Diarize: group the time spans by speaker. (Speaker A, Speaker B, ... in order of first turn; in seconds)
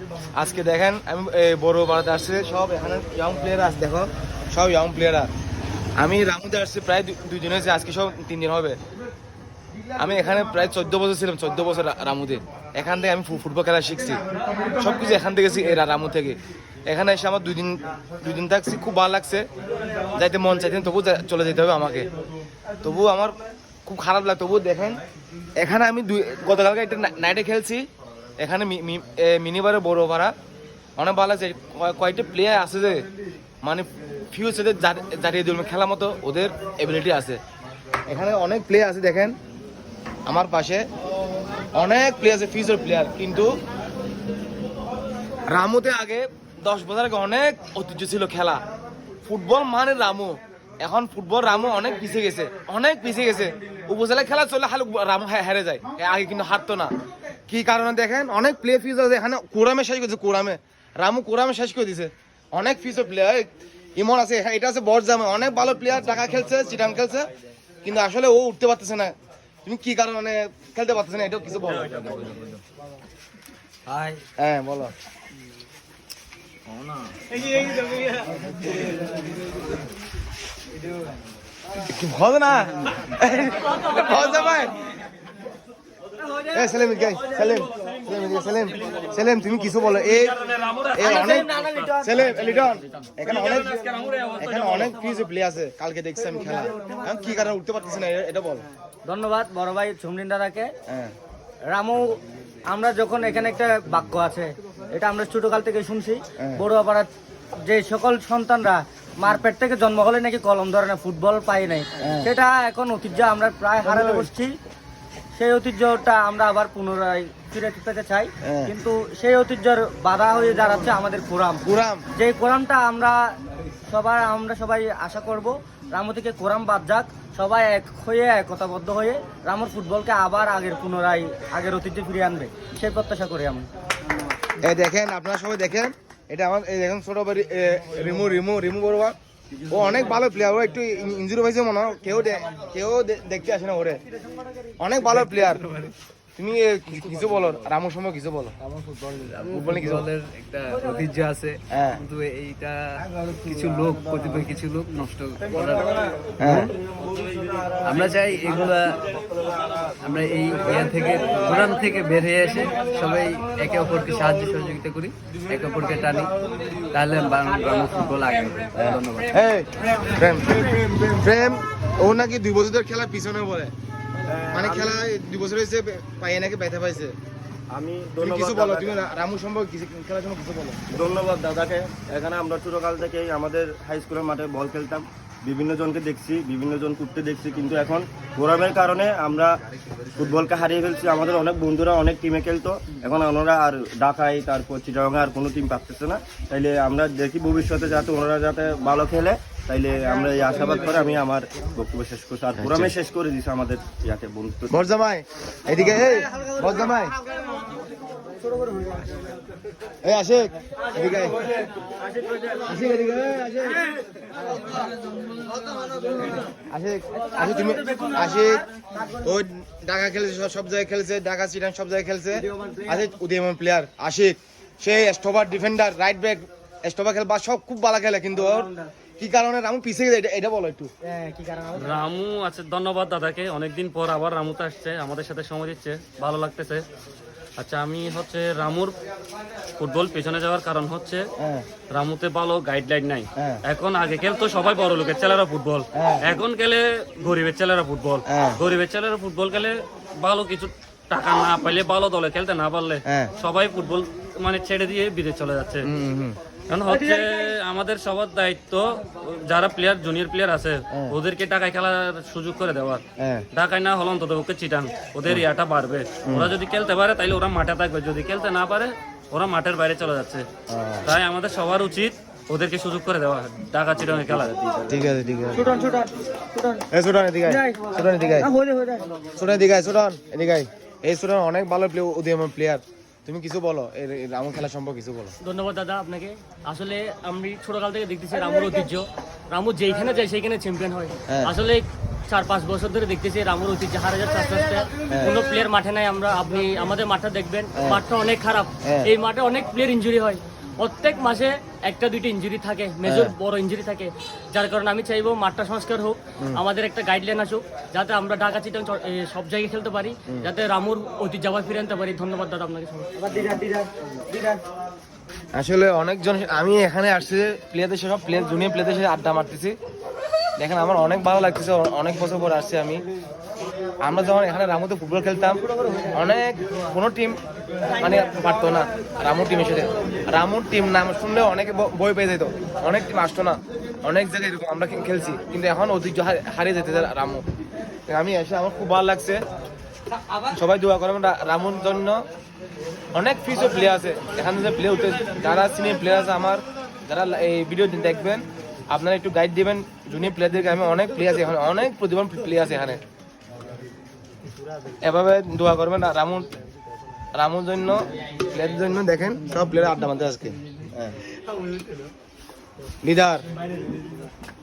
Speaker A: 0.3-5.3, 6.0-8.8, 10.0-14.2, 14.8-19.5, 20.1-22.1, 22.8-25.0, 25.6-27.9, 28.4-30.3, 31.0-33.0, 33.6-37.4, 38.1-39.3, 40.2-40.9, 41.7-43.5, 45.5-48.6, 49.2-56.9, 57.5-67.3, 67.8-72.3, 74.4-74.9, 81.9-84.7, 86.5-90.4, 90.9-91.5, 92.0-93.8, 94.4-98.7, 112.0-112.3, 113.8-114.3, 118.4-118.7, 121.6-122.0, 134.6-139.2, 139.7-144.0, 144.8-145.6, 146.3-148.5, 149.6-150.0, 151.7-152.0, 156.4-156.7, 168.8-173.7, 174.5-177.2, 178.2-180.8, 202.6-202.9, 204.7-207.1, 210.0-211.4, 212.7-213.8, 216.5-218.6, 219.2-230.9, 241.4-241.7, 245.9-246.3, 248.3-248.6, 253.1-253.3, 255.8-256.4, 263.2-263.4, 266.2-266.5, 270.7-271.1, 274.9-275.8, 276.9-278.5, 279.4-285.3, 291.3-291.5, 297.7-298.0, 298.8-299.1, 303.0-303.3, 315.5-319.8, 320.6-323.0, 324.0-327.4, 328.0-337.4, 338.1-339.4, 340.5-342.2, 343.1-353.0, 355.0-356.5, 357.3-361.1, 363.0-363.4
Speaker B: 73.9-74.2, 91.0-92.8, 99.0-100.7, 101.7-102.1, 102.7-107.1, 107.6-114.5, 115.3-121.6, 122.2-123.3, 123.9-133.7, 205.7-207.7, 208.3-209.3, 211.0-211.3, 211.9-213.2, 214.5-214.8, 215.6-216.2, 217.3-219.3, 222.3-223.1, 228.3-228.9, 231.0-232.1, 275.5-276.9, 277.4-279.1, 288.3-288.8, 313.1-314.6
Speaker C: 90.0-91.9, 93.3-94.9, 231.8-236.8, 237.6-238.9, 239.8-241.2, 241.9-255.8, 256.7-270.5, 271.0-275.0
Speaker D: 149.0-156.7, 157.8-159.0, 160.0-166.3, 166.9-169.3
Speaker E: 174.3-175.0, 177.7-179.0, 180.9-189.5, 190.2-204.8
Speaker F: 285.4-313.1